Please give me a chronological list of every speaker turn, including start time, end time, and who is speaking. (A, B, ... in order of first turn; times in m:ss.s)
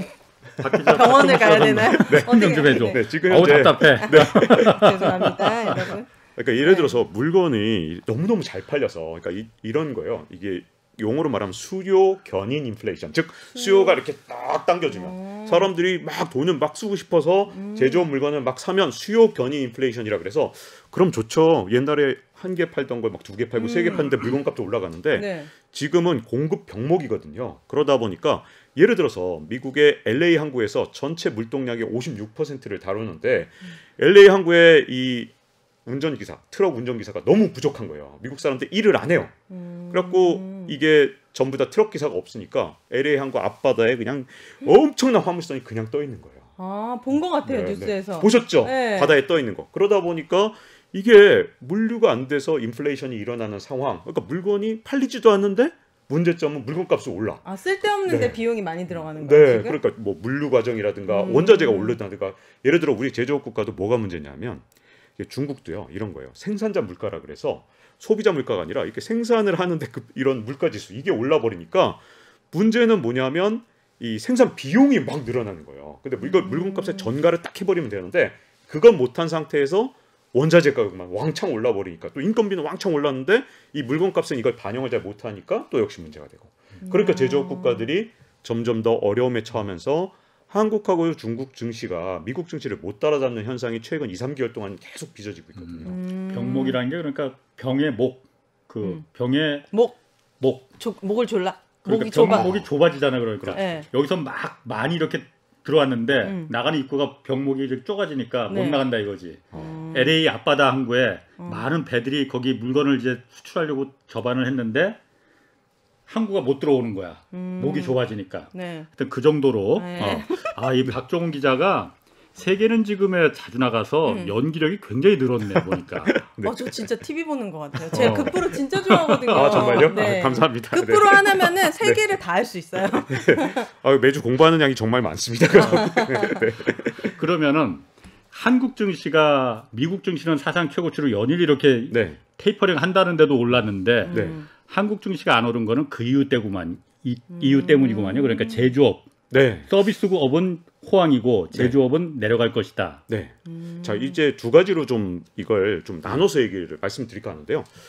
0:00.6-0:05.9 A
0:00.9-0:06.1 B
0:01.0-0:01.4 C
0:01.9-0:05.1 C
0:06.4-0:35.3 C
0:06.6-0:07.0 B
0:13.5-0:14.0 B
0:14.9-0:15.7 B
0:17.5-0:18.1 B
0:23.6-0:24.1 B
0:25.1-0:25.5 B
0:35.8-0:39.3 C
0:39.5-0:40.8 B
0:39.9-0:46.4 C
0:46.6-0:49.2 B
0:47.4-0:57.4 C
0:57.4-0:59.8 B
0:58.0-0:58.4 C
0:59.1-1:04.6 C
1:01.1-1:02.0 B
1:05.2-1:12.0 C
1:12.5-1:36.0 C
1:16.2-1:17.1 B
1:26.8-1:27.9 B
1:35.6-1:39.7 A
1:35.8-1:36.8 B
1:39.7-1:40.0 B
1:40.4-1:40.7 A
1:40.7-1:42.6 B
1:41.8-1:55.0 A
1:42.3-1:42.6 C
1:43.5-1:43.9 B
1:46.2-1:46.5 B
1:48.5-1:48.8 B
1:49.5-1:49.8 C
1:49.5-1:50.2 B
1:51.4-1:51.6 B
1:56.1-2:06.1 A
1:57.3-1:58.0 B
1:58.5-1:58.9 B
1:59.8-2:00.6 B
2:04.0-2:04.4 B
2:05.6-2:06.8 C
2:06.4-2:13.7 B
2:07.9-2:08.5 C
2:07.9-2:10.1 A
2:09.3-2:12.0 C
2:13.1-2:17.2 C
2:15.6-2:16.4 B
2:15.6-2:15.9 A
2:17.0-2:29.1 A
2:21.9-2:22.2 C
2:24.0-2:24.5 B
2:24.1-2:24.4 C
2:27.3-2:28.7 B
2:29.3-2:29.7 C
2:29.6-2:33.0 A
2:33.1-2:37.7 C
2:33.4-2:34.2 B